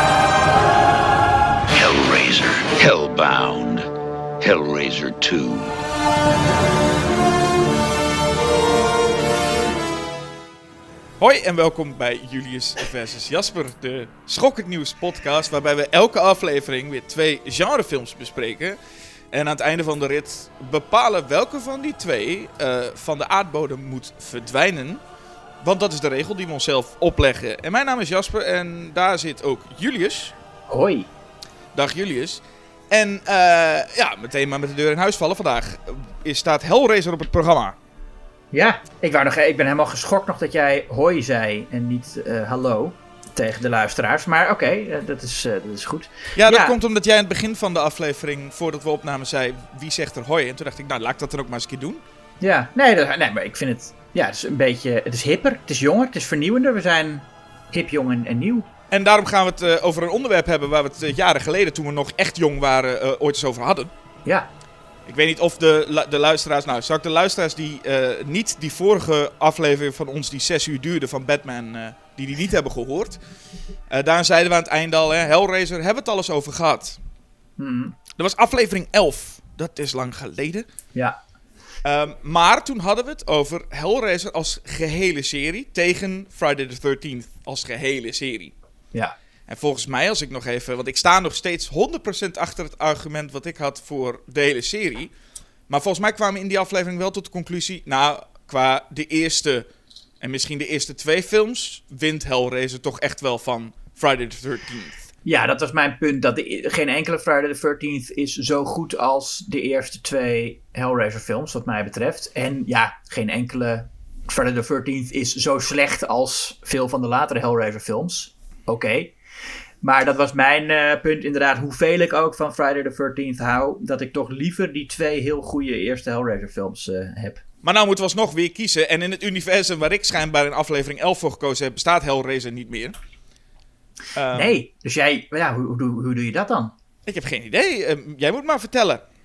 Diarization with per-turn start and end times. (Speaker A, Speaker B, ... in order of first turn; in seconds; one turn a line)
Speaker A: 1.7-3.9
Speaker A: 4.4-5.7
Speaker B: 11.2-18.8
Speaker B: 19.3-25.0
Speaker B: 25.6-30.3
Speaker C: 30.7-31.1
Speaker B: 31.7-37.7
Speaker C: 38.5-46.7
Speaker B: 46.4-52.0
Speaker C: 52.4-58.7
Speaker B: 58.9-63.9
Speaker B: 65.1-73.2
Speaker B: 73.9-77.0
Speaker C: 77.6-78.0
Speaker B: 78.2-80.6
Speaker B: 81.8-88.5
Speaker B: 89.5-95.1
Speaker B: 95.7-99.7
Speaker B: 100.2-105.0
Speaker C: 105.2-119.1
Speaker C: 119.8-127.4
Speaker B: 127.6-132.9
Speaker B: 134.2-134.5
Speaker C: 134.3-136.7
Speaker B: 137.1-139.0